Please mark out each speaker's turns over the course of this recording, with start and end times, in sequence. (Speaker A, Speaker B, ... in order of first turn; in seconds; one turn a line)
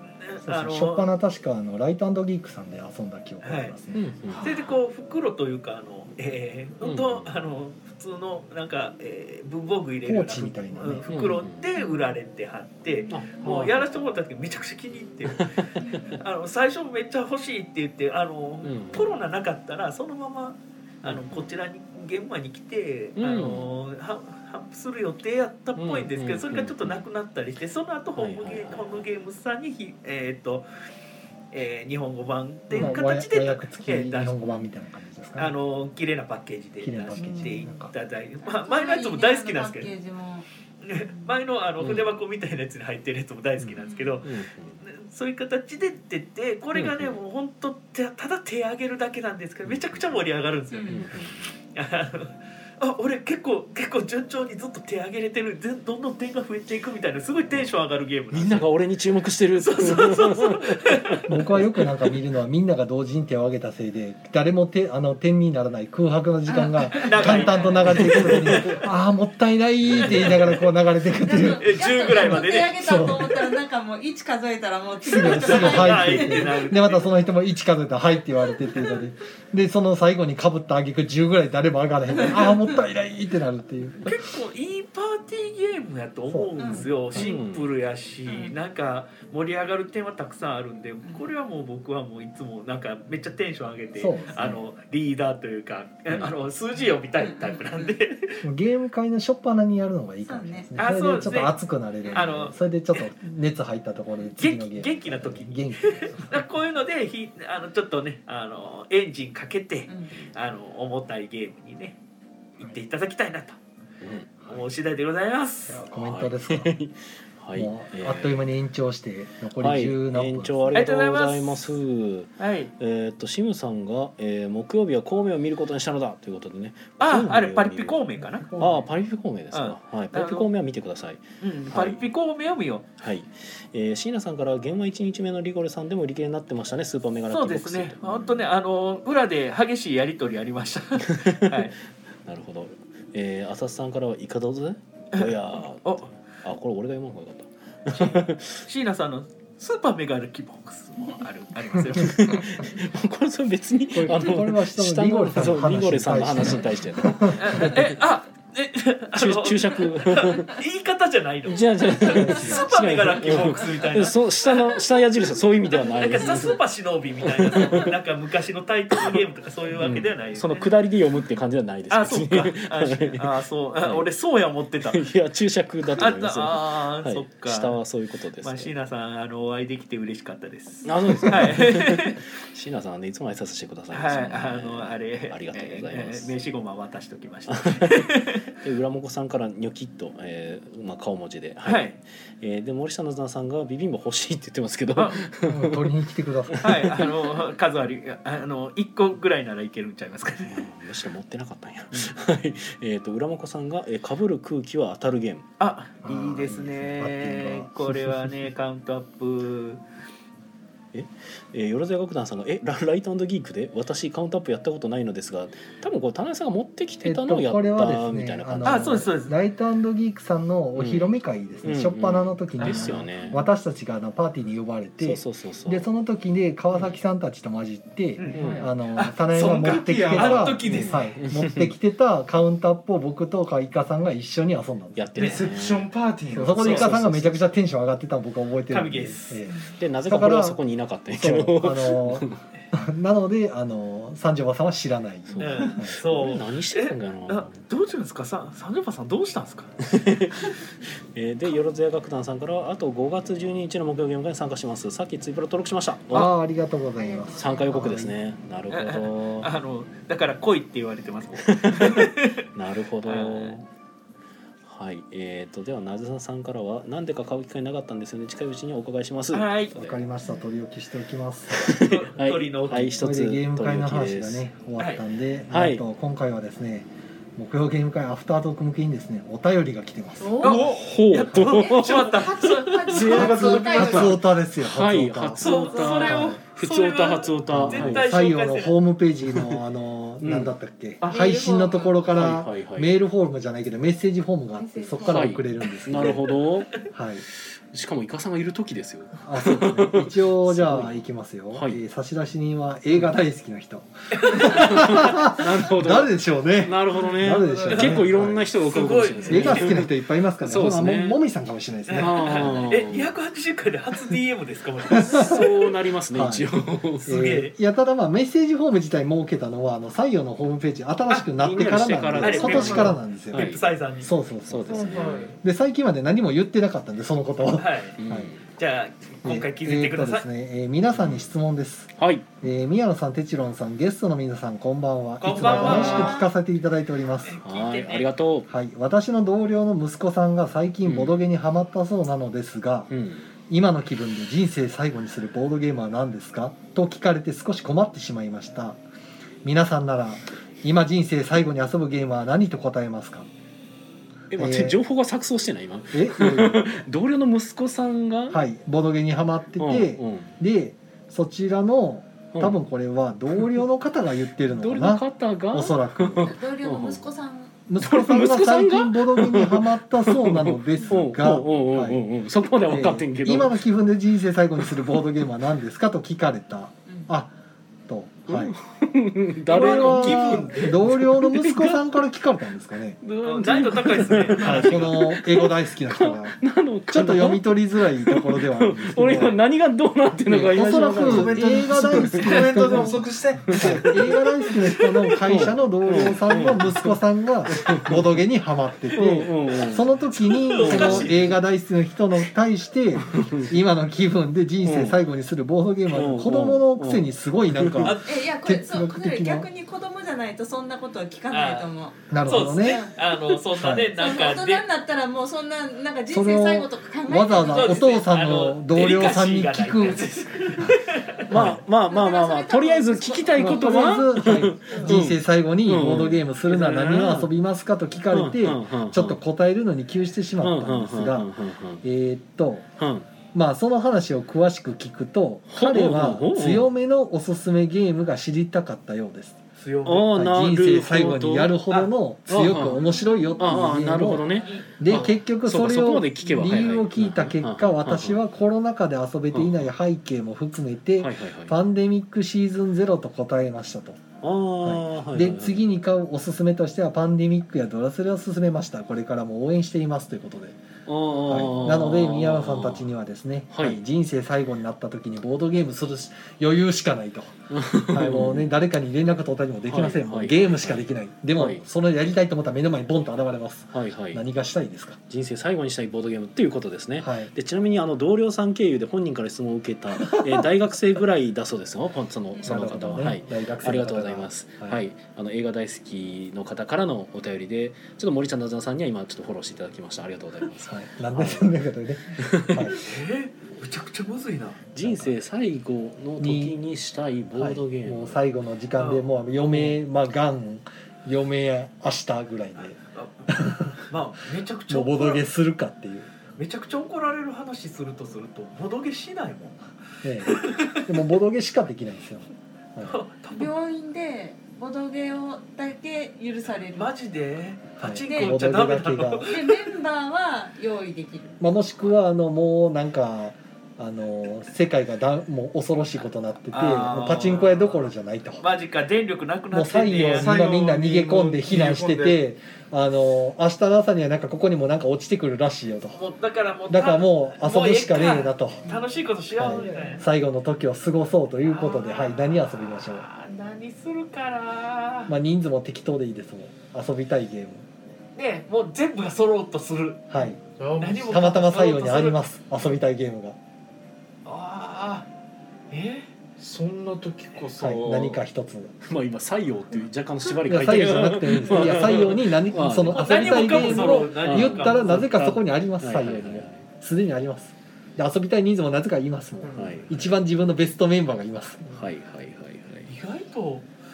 Speaker A: 0.2-1.1
Speaker B: 0.4-4.1
Speaker A: 3.4-3.7
Speaker C: 3.9-4.8
Speaker D: 4.3-4.6
Speaker A: 4.4-30.7
Speaker C: 6.8-7.3
Speaker B: 10.1-11.1
Speaker C: 11.1-11.7
Speaker E: 11.8-12.2
Speaker C: 13.1-14.1
Speaker C: 15.3-15.7
Speaker E: 15.8-16.2
Speaker C: 18.6-19.2
Speaker C: 21.0-21.6
Speaker C: 23.2-23.7
Speaker C: 25.8-27.1
Speaker C: 28.2-29.1
Speaker A: 31.5-34.4
Speaker B: 32.8-35.5
Speaker A: 35.4-39.9
Speaker B: 36.8-37.9
Speaker E: 37.1-37.9
Speaker E: 38.4-41.4
Speaker A: 40.8-51.1
Speaker C: 41.8-42.1
Speaker C: 43.6-44.8
Speaker E: 43.8-44.2
Speaker C: 46.7-47.2
Speaker C: 49.6-50.2
Speaker E: 50.7-51.1
Speaker C: 50.8-51.6
Speaker A: 51.7-58.8
Speaker C: 58.3-61.8
Speaker A: 59.5-61.3
Speaker B: 61.3-73.6
Speaker E: 66.5-68.6
Speaker A: 66.9-68.8
Speaker A: 70.0-70.5
Speaker E: 71.2-76.7
Speaker A: 71.6-73.0
Speaker B: 75.0-84.2
Speaker A: 75.1-77.1
Speaker E: 82.2-82.6
Speaker A: 84.0-98.4
Speaker B: 86.3-87.3
Speaker E: 86.6-86.9
Speaker C: 87.1-87.7
Speaker E: 88.3-88.5
Speaker B: 94.0-94.6
Speaker C: 96.1-96.3
Speaker E: 97.2-97.9
Speaker B: 98.4-106.4
Speaker E: 100.2-100.7
Speaker A: 100.8-101.6
Speaker A: 102.1-103.0
Speaker A: 104.4-112.0
Speaker E: 109.9-110.1
Speaker A: 112.6-113.6
Speaker C: 114.0-114.3
Speaker A: 114.5-115.8
Speaker B: 115.7-116.7
Speaker C: 115.9-118.5
Speaker B: 117.5-120.9
Speaker C: 119.6-128.0
Speaker A: 120.7-121.8
Speaker A: 122.4-122.7
Speaker A: 127.0-128.5
Speaker B: 128.2-128.9
Speaker C: 128.6-132.0
Speaker A: 129.5-130.5
Speaker A: 131.4-132.9
Speaker C: 133.0-138.4
Speaker A: 137.3-141.7
Speaker C: 141.0-141.6
Speaker C: 142.3-148.7
Speaker A: 145.1-146.1
Speaker A: 147.9-152.5
Speaker C: 151.9-157.9
Speaker B: 153.9-157.7
Speaker A: 157.3-164.8
Speaker C: 159.1-160.6
Speaker C: 161.5-166.6
Speaker B: 162.1-162.7
Speaker A: 165.8-170.7
Speaker C: 167.2-167.9
Speaker C: 169.8-174.1
Speaker A: 171.9-175.0
Speaker C: 174.8-178.7
Speaker A: 176.0-177.8
Speaker A: 178.4-182.2
Speaker C: 180.8-186.3
Speaker A: 183.9-188.5
Speaker C: 187.5-195.9
Speaker A: 191.7-192.0
Speaker A: 195.0-195.3
Speaker B: 195.4-197.1
Speaker C: 196.5-197.1
Speaker A: 196.6-200.7
Speaker C: 200.4-205.5
Speaker A: 205.6-209.8
Speaker B: 206.0-208.5
Speaker C: 210.9-219.0
Speaker B: 217.0-235.1
Speaker A: 218.7-219.3
Speaker C: 220.8-223.4
Speaker C: 225.0-225.9
Speaker A: 228.2-231.1
Speaker C: 228.3-228.7
Speaker D: 229.3-230.9
Speaker C: 231.2-231.7
Speaker C: 235.0-235.9
Speaker D: 235.2-237.0
Speaker B: 236.3-240.6
Speaker C: 236.6-237.5
Speaker A: 238.7-239.4
Speaker C: 239.8-242.4
Speaker B: 241.1-246.0
Speaker C: 245.3-247.6
Speaker A: 245.4-249.7
Speaker C: 249.8-256.3
Speaker B: 256.1-258.1
Speaker E: 257.0-257.7
Speaker C: 257.4-259.5
Speaker A: 258.7-262.5
Speaker C: 261.4-263.7
Speaker A: 263.0-263.6
Speaker C: 264.7-269.9
Speaker A: 269.3-269.9
Speaker B: 269.7-271.7
Speaker C: 271.6-274.4
Speaker A: 271.7-273.0
Speaker B: 273.0-280.4
Speaker A: 274.8-275.0
Speaker C: 275.5-275.8
Speaker E: 280.2-280.6
Speaker D: 280.4-280.8
Speaker A: 280.4-283.5
Speaker C: 280.4-288.1
Speaker E: 282.2-284.2
Speaker B: 283.0-285.4
Speaker A: 285.4-288.8
Speaker E: 285.5-286.1
Speaker B: 286.0-286.4
Speaker B: 287.5-296.4
Speaker C: 289.3-289.6
Speaker C: 290.2-290.5
Speaker E: 291.0-292.1
Speaker C: 292.1-292.9
Speaker E: 294.5-295.3
Speaker C: 295.0-296.7
Speaker B: 296.9-297.2
Speaker C: 297.4-301.8
Speaker B: 299.2-308.5
Speaker A: 304.1-304.9
Speaker C: 304.3-311.2
Speaker D: 307.4-307.9
Speaker A: 307.7-308.1
Speaker A: 308.6-309.8
Speaker B: 309.2-312.6
Speaker A: 311.9-315.6
Speaker C: 312.0-313.2
Speaker B: 314.9-315.4
Speaker C: 315.0-317.1
Speaker B: 316.1-316.5
Speaker A: 317.0-317.5
Speaker B: 317.1-328.3
Speaker C: 321.4-323.6
Speaker A: 322.2-324.1
Speaker C: 324.5-325.4
Speaker D: 324.7-325.4
Speaker A: 327.6-330.3
Speaker C: 328.0-328.5
Speaker B: 329.2-337.4
Speaker C: 331.0-331.3
Speaker C: 332.0-332.3
Speaker A: 335.2-336.3
Speaker D: 335.3-336.2
Speaker C: 335.6-336.2
Speaker A: 337.2-338.1
Speaker C: 337.4-338.5
Speaker B: 338.5-342.9
Speaker C: 340.9-341.2
Speaker C: 342.9-343.3
Speaker B: 343.5-348.8
Speaker B: 349.4-353.3
Speaker C: 354.3-358.4
Speaker B: 354.4-354.8
Speaker B: 355.9-356.8
Speaker B: 358.3-366.3
Speaker C: 359.6-360.3
Speaker C: 362.3-362.6
Speaker C: 364.5-367.1
Speaker E: 366.2-367.5
Speaker B: 367.7-372.1
Speaker C: 367.8-373.6
Speaker B: 372.6-377.3
Speaker B: 377.9-378.5
Speaker C: 378.3-381.8
Speaker A: 379.5-380.8
Speaker B: 379.5-383.0
Speaker C: 383.0-398.2
Speaker A: 383.2-384.8
Speaker B: 384.4-386.4
Speaker B: 386.9-389.4
Speaker B: 390.3-409.5
Speaker D: 390.7-394.1
Speaker C: 398.9-401.4
Speaker A: 400.2-401.3
Speaker C: 403.0-403.5
Speaker C: 404.6-405.0
Speaker C: 405.9-407.9
Speaker A: 407.8-408.1
Speaker E: 408.0-412.9
Speaker A: 411.3-414.6
Speaker B: 412.1-412.9
Speaker B: 413.6-413.9
Speaker E: 414.0-417.9
Speaker B: 416.1-420.1
Speaker A: 417.4-421.3
Speaker C: 421.3-427.3
Speaker B: 421.3-421.6
Speaker E: 421.8-424.1
Speaker B: 423.4-432.7
Speaker A: 426.7-427.1
Speaker C: 428.1-429.2
Speaker C: 430.4-431.8
Speaker C: 432.8-433.1
Speaker B: 433.3-439.4
Speaker C: 435.5-436.7
Speaker A: 439.6-440.1
Speaker C: 439.8-441.6
Speaker B: 440.1-444.3
Speaker C: 442.3-442.8
Speaker E: 442.8-443.7
Speaker C: 443.4-448.2
Speaker A: 444.5-445.1
Speaker B: 444.8-454.0
Speaker C: 449.3-449.7
Speaker C: 451.0-451.6
Speaker C: 454.2-455.7
Speaker B: 454.6-460.6
Speaker C: 460.9-462.9
Speaker B: 461.3-475.0
Speaker C: 463.5-463.8
Speaker C: 467.5-468.5
Speaker C: 469.6-471.7
Speaker C: 473.7-474.2
Speaker C: 475.1-491.5
Speaker B: 477.0-477.3
Speaker B: 482.4-484.8
Speaker B: 490.7-492.8
Speaker C: 492.2-492.7
Speaker A: 492.7-494.8
Speaker C: 494.8-498.2
Speaker B: 494.8-495.1
Speaker B: 496.2-496.6
Speaker B: 497.3-502.8
Speaker A: 498.8-499.1
Speaker A: 502.9-505.3
Speaker B: 503.3-503.7
Speaker B: 504.7-506.1
Speaker A: 506.4-509.6
Speaker B: 510.0-513.0
Speaker A: 510.2-510.9
Speaker A: 512.8-513.5
Speaker E: 513.3-516.9
Speaker A: 516.7-519.7
Speaker B: 517.8-519.3
Speaker E: 518.0-518.5
Speaker E: 519.2-521.4
Speaker B: 521.4-528.5
Speaker A: 526.5-527.9
Speaker A: 528.4-530.4
Speaker B: 529.5-536.0
Speaker D: 530.1-532.2
Speaker A: 536.0-540.0
Speaker B: 536.7-538.7
Speaker B: 539.4-543.1
Speaker D: 539.5-540.0
Speaker A: 541.5-545.1
Speaker B: 545.1-547.7
Speaker A: 548.2-550.1
Speaker B: 550.1-550.4
Speaker D: 550.6-551.3
Speaker A: 550.8-552.2
Speaker B: 551.1-553.4
Speaker A: 554.3-555.1
Speaker A: 555.7-556.1
Speaker D: 556.4-558.2
Speaker B: 557.6-558.7
Speaker C: 558.8-566.6
Speaker B: 560.5-571.7
Speaker A: 562.9-565.1
Speaker D: 569.5-569.8
Speaker C: 569.5-569.9
Speaker C: 571.7-572.9
Speaker A: 572.9-573.7